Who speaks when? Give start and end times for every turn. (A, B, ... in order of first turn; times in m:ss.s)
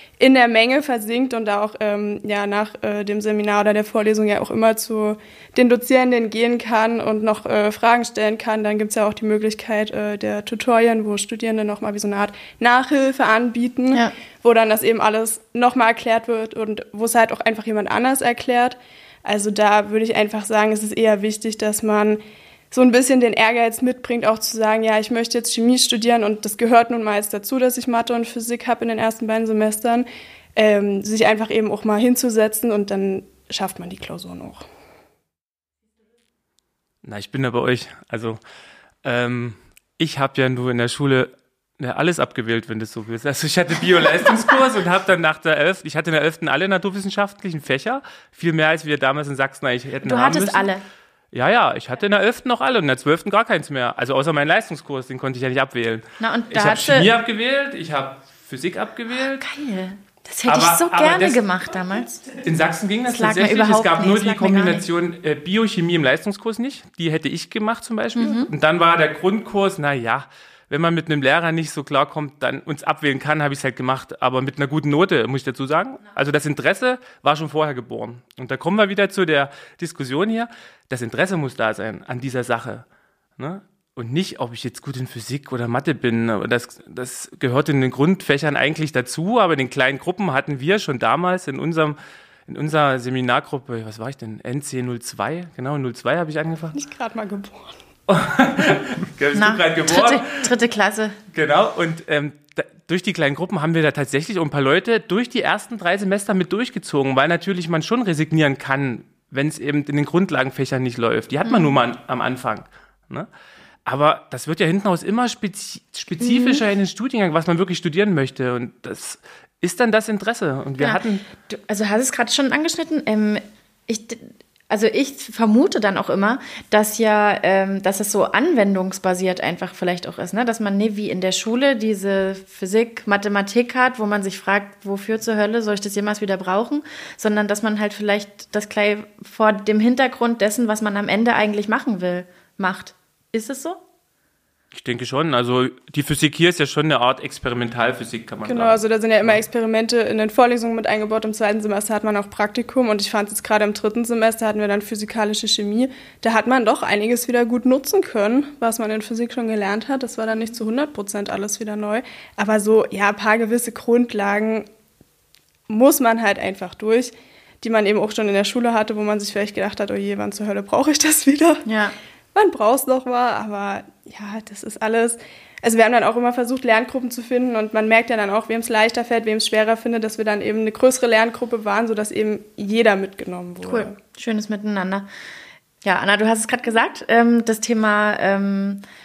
0:00.2-0:34.7 A
0:37.0-0:38.4 B
0:39.0-0:50.7 B
0:50.0-0:50.8 C
0:51.3-0:59.4 B
0:56.2-0:57.1 C
0:59.4-1:02.4 C
1:00.5-1:01.4 B
1:02.3-1:22.8 B
1:03.1-1:04.9 C
1:08.2-1:08.5 C
1:23.4-1:36.8 B
1:36.7-1:37.8 A
1:38.1-1:40.5 B
1:39.3-1:41.2 C
1:41.3-1:53.3 B
1:51.4-1:51.8 C
1:53.8-2:01.3 B
1:56.2-1:56.6 C
2:00.8-2:23.8 C
2:24.7-2:29.4 B
2:28.4-2:44.7 A
2:45.7-2:51.6 A
2:51.7-2:52.0 C
2:52.3-3:04.0 A
3:03.6-3:05.1 C
3:05.8-3:08.8 C